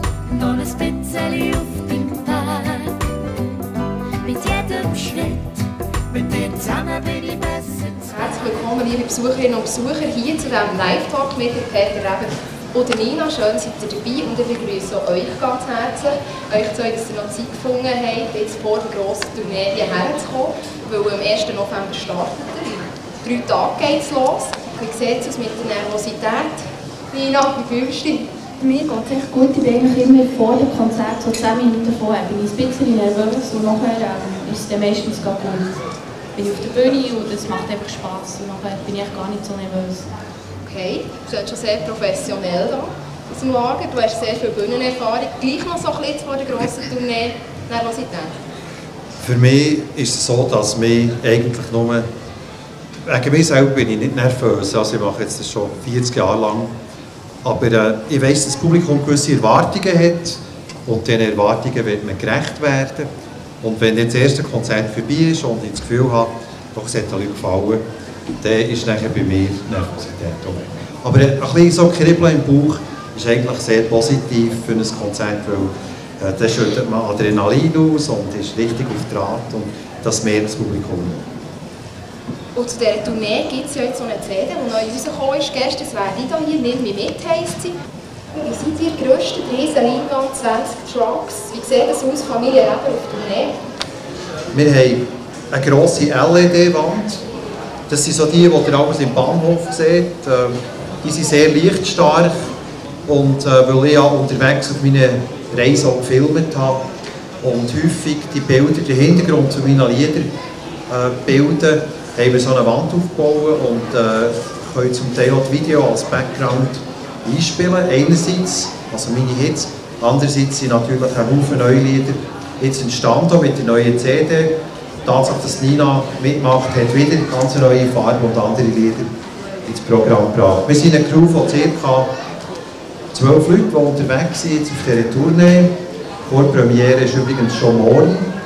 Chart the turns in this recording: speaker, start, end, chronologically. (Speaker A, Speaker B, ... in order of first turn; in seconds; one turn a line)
Speaker A: 0.3-3.0
Speaker A: 4.2-8.1
Speaker B: 8.1-26.6
Speaker B: 27.1-28.3
Speaker C: 28.6-35.7
Speaker C: 36.4-40.0
Speaker B: 40.6-48.3
Speaker D: 49.2-52.0
Speaker D: 53.0-56.7
Speaker D: 57.4-63.1
Speaker D: 63.6-67.8
Speaker D: 68.4-81.2
Speaker B: 82.5-87.7
Speaker B: 88.3-93.5
Speaker D: 94.5-97.2
Speaker D: 97.9-102.3
Speaker D: 103.0-106.8
Speaker D: 107.4-110.3
Speaker D: 110.9-124.5
Speaker D: 125.0-129.1
Speaker D: 129.6-132.1
Speaker D: 133.1-135.7
Speaker D: 136.2-138.2